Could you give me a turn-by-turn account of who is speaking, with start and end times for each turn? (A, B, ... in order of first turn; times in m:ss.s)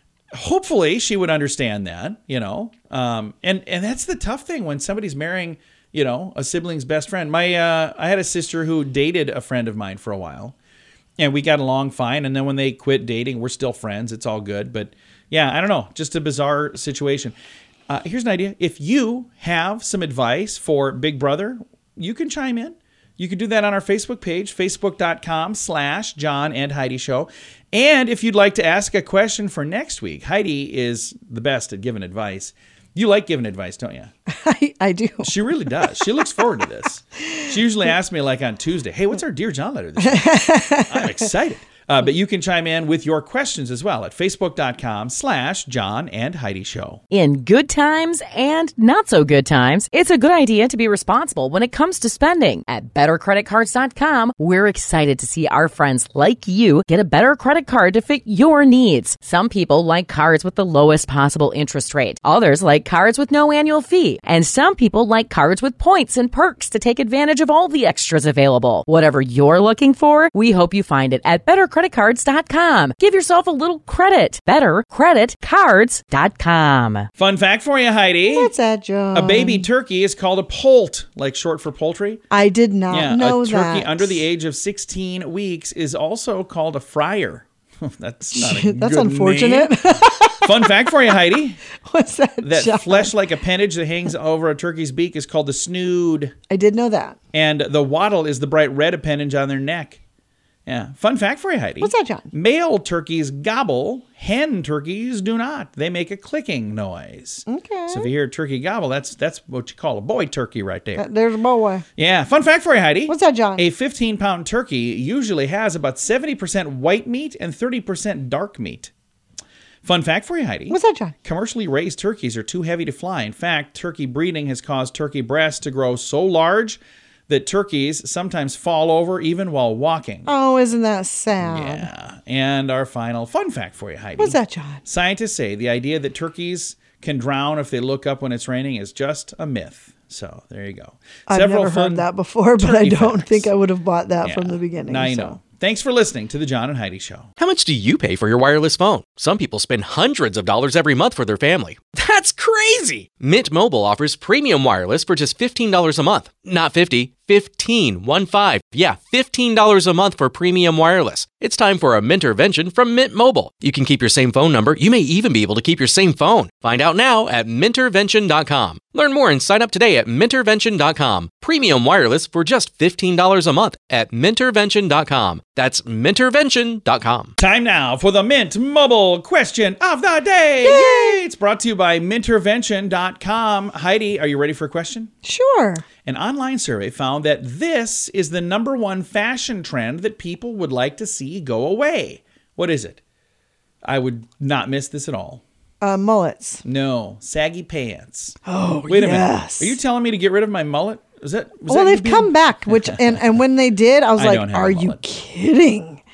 0:00.3-0:10.6 A
0:11.2-0:17.4 A
0:17.9-0:34.1 A
0:34.3-0:36.1 B
0:35.2-0:47.0 A
0:40.0-0:41.3 B
0:47.1-1:17.1 C
1:17.2-1:18.5 A
1:18.2-1:19.7 B
1:19.1-1:22.2 A
1:22.3-1:24.2 B
1:22.9-1:29.7 A
1:28.3-1:31.2 B
1:30.4-1:31.6 A
1:31.8-1:33.2 B
1:32.4-1:36.4 A
1:36.5-1:37.2 B
1:37.3-1:40.0 A
1:40.7-1:51.1 A
1:41.8-1:42.3 B
1:47.5-1:48.1 B
1:51.0-1:51.9 B
1:52.0-1:58.9 A
1:53.1-1:53.7 B
1:59.8-2:10.3 A
2:00.7-2:01.2 B
2:10.2-2:11.9 B
2:11.4-2:22.1 A
2:14.2-2:14.8 B
2:21.3-2:25.4 B
2:22.6-2:23.5 A
2:24.2-2:27.3 A
2:27.4-2:57.4 D
2:57.4-3:05.1 A
3:00.6-3:01.2 B
3:05.2-3:05.8 B
3:06.0-3:13.0 A
3:13.8-3:15.4 A
3:15.8-3:16.6 B
3:16.6-3:23.0 A
3:18.5-3:19.8 B
3:21.7-3:26.0 B
3:24.2-3:25.0 A